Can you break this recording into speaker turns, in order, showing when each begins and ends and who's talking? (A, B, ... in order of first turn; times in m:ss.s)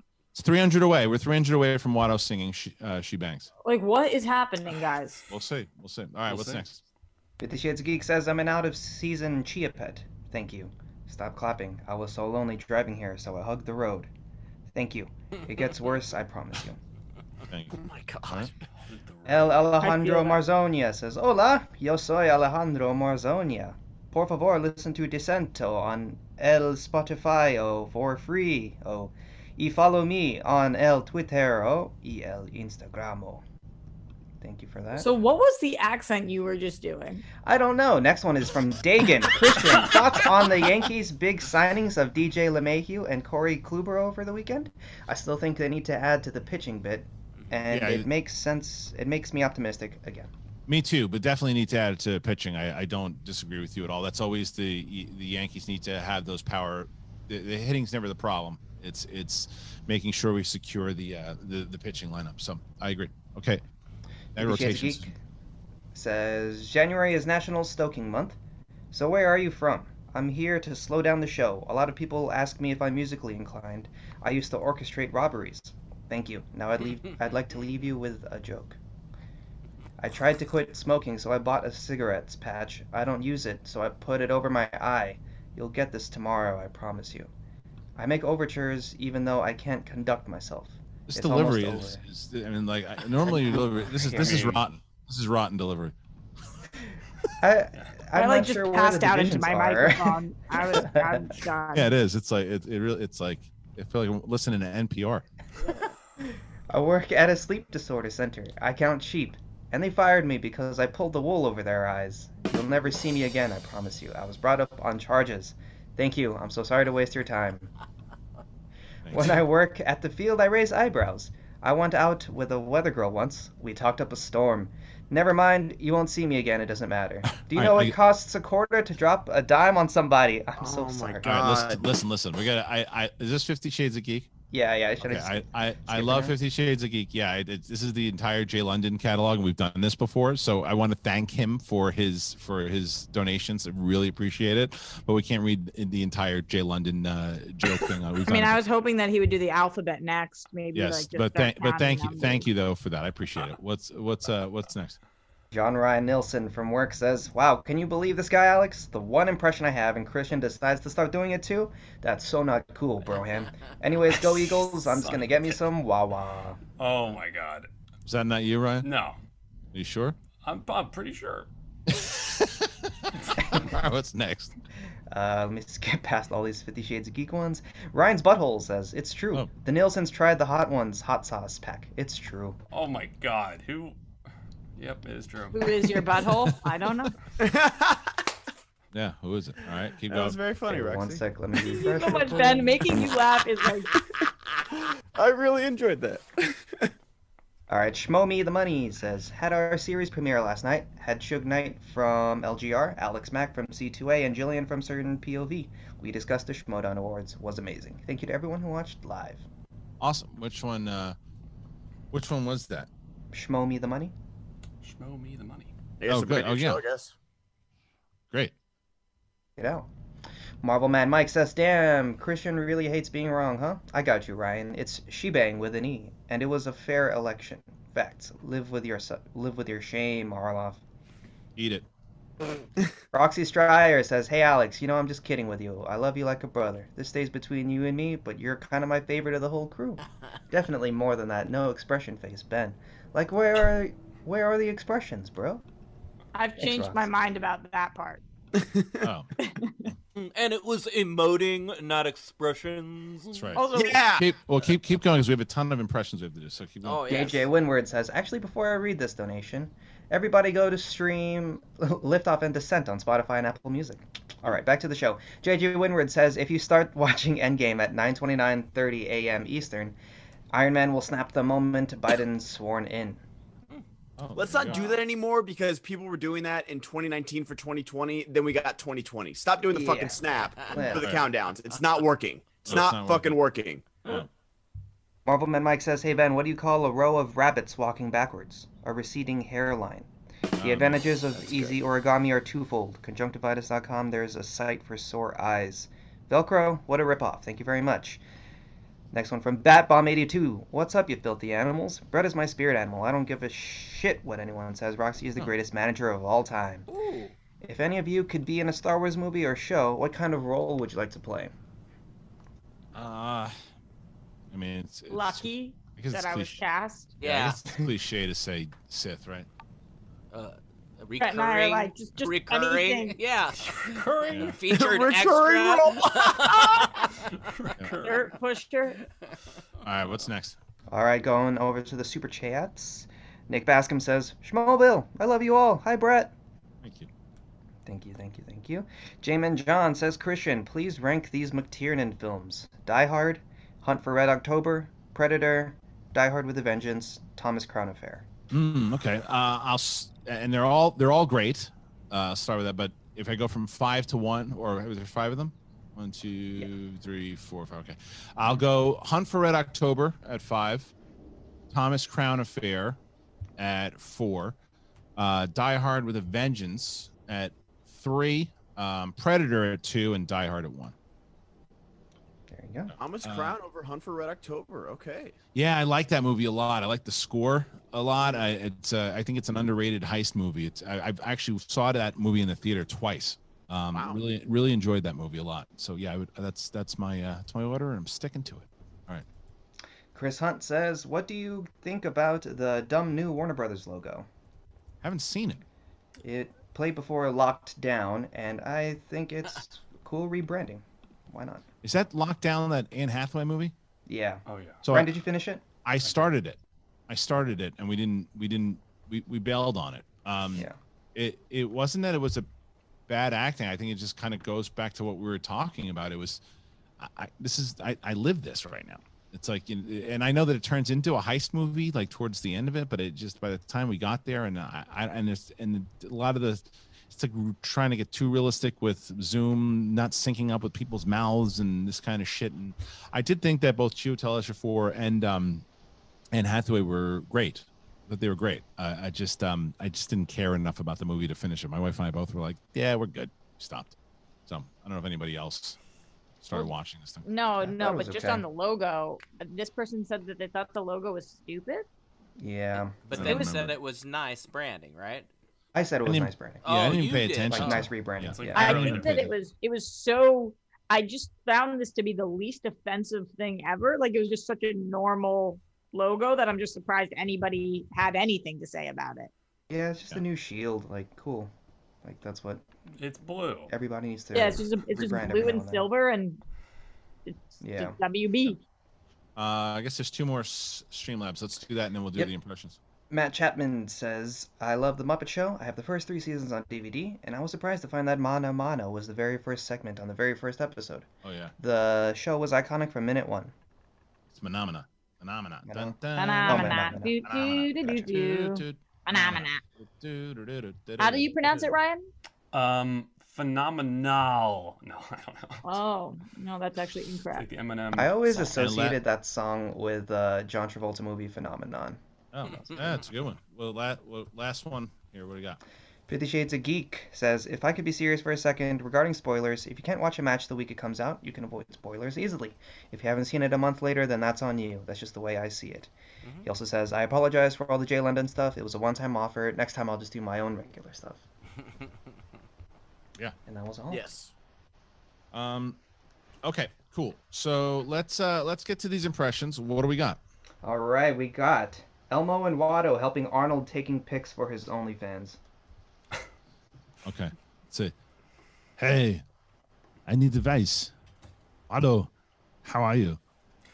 0:00.3-0:03.5 A
0:03.6-0:05.2 B
0:05.3-0:06.8 A
0:06.3-0:06.6 C
0:07.4-0:14.1 D
0:14.7-0:16.8 D
0:17.5-0:18.5 A
0:17.7-0:18.6 E
0:18.9-0:19.6 C
0:19.2-0:33.4 D
0:19.8-0:20.4 B
0:34.4-0:35.1 D
0:34.9-0:37.2 B
0:37.4-0:50.3 D
0:47.7-0:48.1 A
0:50.7-1:03.6 A
1:04.4-1:05.1 A
1:04.4-1:05.1 D
1:05.9-1:08.4 D
1:08.9-1:18.8 D
1:20.0-1:27.3 D
1:28.0-1:32.0 D
1:31.1-1:35.9 A
1:33.2-1:34.5 D
1:34.2-1:34.6 C
1:37.4-1:41.3 D
1:38.1-1:41.9 B
1:41.7-1:45.3 A
1:46.7-1:57.7 D
1:59.0-1:59.4 A
1:59.1-2:11.5 D
2:07.4-2:08.0 A
2:10.6-2:11.9 E
2:11.2-2:14.3 A
2:14.5-2:16.3 D
2:15.0-2:28.6 A
2:28.2-2:32.5 B
2:30.7-2:35.0 A
2:35.5-2:46.6 D
2:44.8-2:45.6 C
2:46.8-2:47.7 C
2:48.0-2:48.9 A
2:48.8-2:49.2 C
2:49.7-2:50.2 A
2:50.4-2:51.5 C
2:51.9-2:52.9 A
2:53.5-2:54.6 A
2:55.1-3:02.6 D
3:02.7-3:04.0 C
3:04.8-3:06.0 C
3:05.5-3:07.1 B
3:07.4-3:08.2 E
3:08.9-3:10.4 A
3:10.1-3:11.2 E
3:10.7-3:12.8 D
3:11.6-3:13.9 B
3:13.9-3:16.9 E
3:17.7-3:29.4 D
3:30.0-3:31.2 A
3:32.1-3:32.9 A
3:33.3-3:34.1 D
3:34.8-3:35.7 C
3:36.0-3:37.1 E
3:36.1-3:36.8 A
3:39.6-3:39.9 D
3:40.6-3:50.8 D
3:51.6-3:51.8 A
3:53.1-4:05.6 D
4:06.3-4:08.2 B
4:06.6-4:07.1 D
4:08.6-4:09.1 E
4:09.0-4:09.3 A
4:09.4-4:09.9 B
4:10.2-4:13.5 F
4:13.3-4:17.3 A
4:13.5-4:14.0 B
4:13.7-4:14.3 E
4:16.8-4:17.4 F
4:17.1-4:30.0 D
4:30.5-4:33.2 D
4:34.2-4:34.8 A
4:34.3-4:44.0 E
4:39.7-4:41.2 D
4:40.9-4:41.2 A
4:42.6-4:43.4 A
4:45.2-4:58.2 D
4:50.5-4:51.8 A
4:59.1-5:06.8 D
5:06.9-5:07.3 F
5:07.6-5:11.5 D
5:12.9-5:13.6 A
5:14.5-5:16.6 A
5:15.1-5:17.2 B
5:17.2-5:17.6 F
5:17.2-5:19.5 A
5:20.3-5:27.3 F
5:21.2-5:23.2 B
5:23.6-5:24.5 C
5:24.3-5:24.5 A
5:24.7-5:27.0 E
5:27.4-5:28.3 C
5:27.8-5:28.0 A
5:28.0-5:29.0 B
5:29.8-5:30.6 A
5:30.9-5:36.3 D
5:36.8-5:37.1 A
5:37.8-5:48.2 D
5:48.5-6:00.9 A
6:01.7-6:03.0 A
6:03.6-6:04.6 A
6:05.2-6:10.9 A
6:12.5-6:12.9 D
6:13.0-6:15.4 E
6:13.2-6:13.5 A
6:15.5-6:29.2 A
6:23.9-6:24.2 E
6:30.1-6:34.2 D
6:35.0-6:35.6 A
6:36.2-6:41.6 D
6:41.8-6:43.7 A
6:44.1-6:45.6 D
6:44.5-6:44.8 C
6:44.8-6:45.1 A
6:45.8-6:52.5 A
6:53.1-6:56.4 A
6:57.0-7:15.6 A
7:16.3-7:23.9 A
7:24.5-7:25.8 A
7:26.4-7:27.2 A
7:27.2-7:31.9 B
7:27.6-7:28.4 D
7:32.4-7:33.2 D
7:33.0-7:35.3 F
7:33.1-7:33.7 A
7:35.7-7:36.6 D
7:36.0-7:39.3 A
7:36.6-7:37.8 F
7:37.5-7:39.3 D
7:38.2-7:39.2 C
7:38.5-7:49.3 B
7:49.7-7:51.5 D
7:52.0-7:52.6 D
7:53.0-7:53.7 C
7:53.7-7:55.9 D
7:54.3-7:56.4 B
7:57.2-7:58.6 B
7:57.6-7:58.0 D
7:59.4-8:02.8 A
8:03.1-8:11.1 D
8:11.2-8:11.5 A
8:11.6-8:13.5 D
8:14.3-8:21.3 A
8:15.6-8:17.2 D
8:16.1-8:19.6 B
8:21.0-8:22.1 B
8:21.4-8:21.7 C
8:22.5-8:25.8 C
8:25.6-8:27.5 B
8:27.3-8:28.4 C
8:27.9-8:32.0 D
8:28.5-8:29.0 A
8:32.3-8:35.6 A
8:32.5-8:33.0 F
8:36.1-8:45.9 D
8:46.4-8:51.2 D
8:53.4-8:54.1 D
8:53.9-8:54.3 E
8:55.3-8:55.8 A
8:56.4-9:00.2 A
9:00.6-9:05.4 D
9:07.0-9:07.9 A
9:08.8-9:09.2 A
9:10.0-9:10.9 A
9:11.7-9:12.1 A
9:12.6-9:13.2 A